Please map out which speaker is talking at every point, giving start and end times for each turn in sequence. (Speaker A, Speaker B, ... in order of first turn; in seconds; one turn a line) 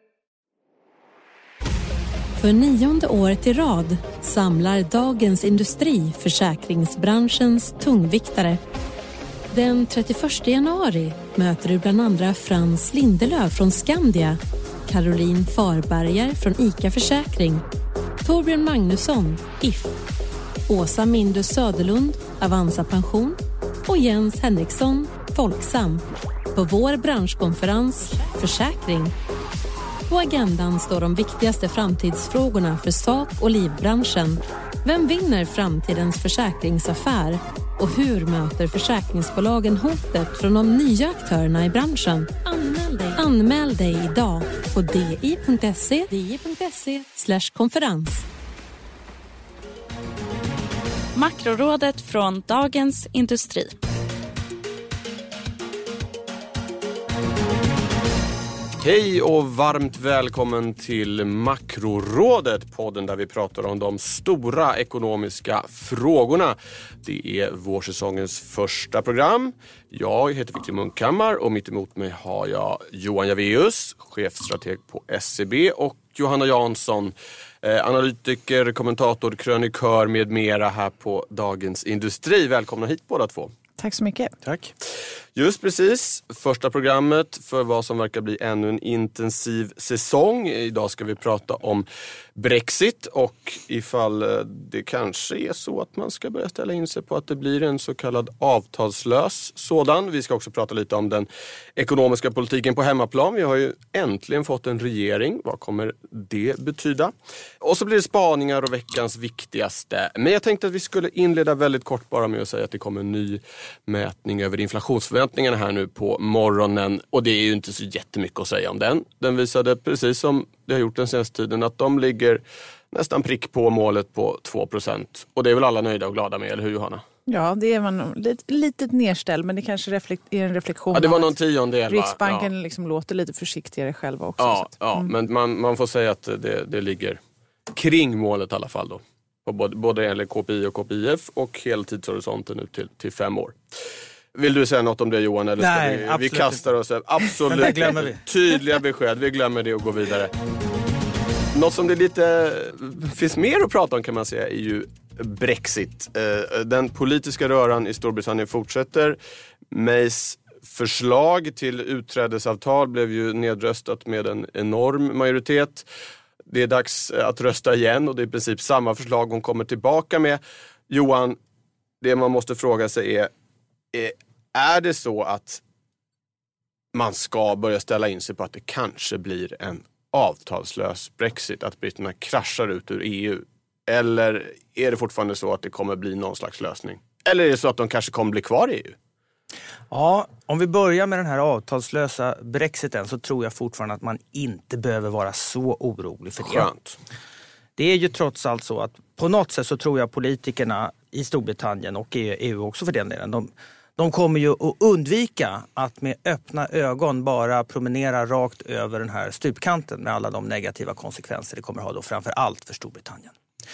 Speaker A: 2.4-8.6
Speaker A: 9.5-17.6
Speaker A: 18.2-19.9
Speaker A: 20.7-29.1
Speaker A: 30.1-48.2
Speaker B: 51.1-53.8
Speaker C: 58.8-83.5
Speaker D: 83.8-84.3
Speaker E: 84.4-84.7
Speaker C: 85.3-91.8
Speaker C: 92.3-127.0
Speaker D: 127.3-131.3
Speaker C: 130.9-132.5
Speaker D: 131.9-135.1
Speaker C: 134.4-143.6
Speaker C: 144.3-150.3
Speaker E: 145.6-146.6
Speaker E: 147.3-148.2
Speaker C: 151.5-159.2
Speaker C: 159.7-165.8
Speaker C: 166.5-171.4
Speaker C: 172.0-173.3
Speaker C: 173.9-175.6
Speaker C: 176.9-188.9
Speaker E: 189.9-196.7
Speaker C: 196.4-196.9
Speaker E: 197.8-213.3